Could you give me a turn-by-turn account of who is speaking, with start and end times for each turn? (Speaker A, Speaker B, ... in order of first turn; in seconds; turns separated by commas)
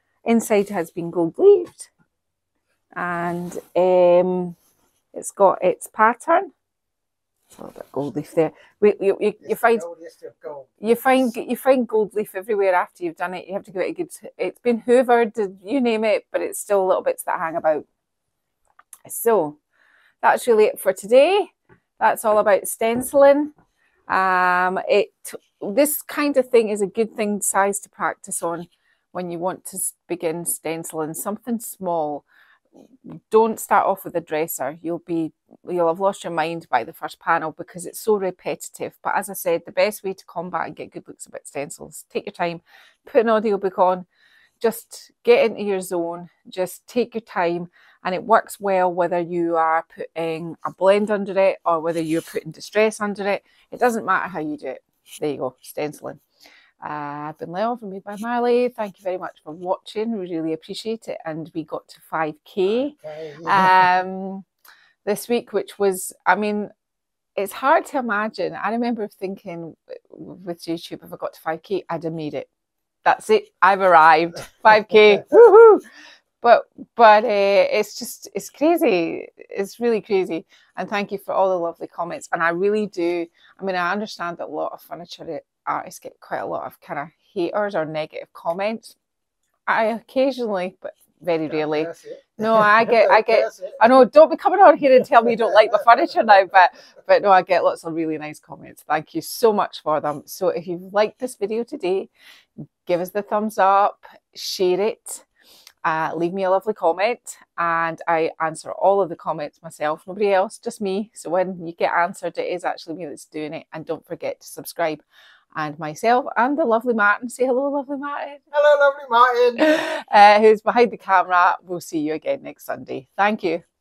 Speaker A: 0.3-1.9, Speaker A: 3.0-4.6, Speaker A: 5.1-6.5, Speaker A: 7.5-9.9, Speaker B: 9.4-11.3, Speaker A: 10.8-17.9, Speaker A: 19.1-19.6, Speaker A: 20.2-23.5, Speaker A: 24.1-32.2, Speaker A: 33.0-44.1, Speaker A: 44.6-56.2, Speaker A: 56.8-64.5, Speaker B: 62.7-63.9, Speaker A: 65.0-66.7, Speaker A: 67.4-72.5, Speaker A: 73.0-75.9, Speaker A: 76.4-89.0, Speaker A: 89.7-102.1, Speaker B: 91.5-93.9, Speaker B: 95.2-95.8, Speaker A: 102.8-105.2, Speaker A: 105.8-115.0, Speaker A: 115.5-118.5, Speaker B: 118.5-119.7, Speaker A: 119.6-123.6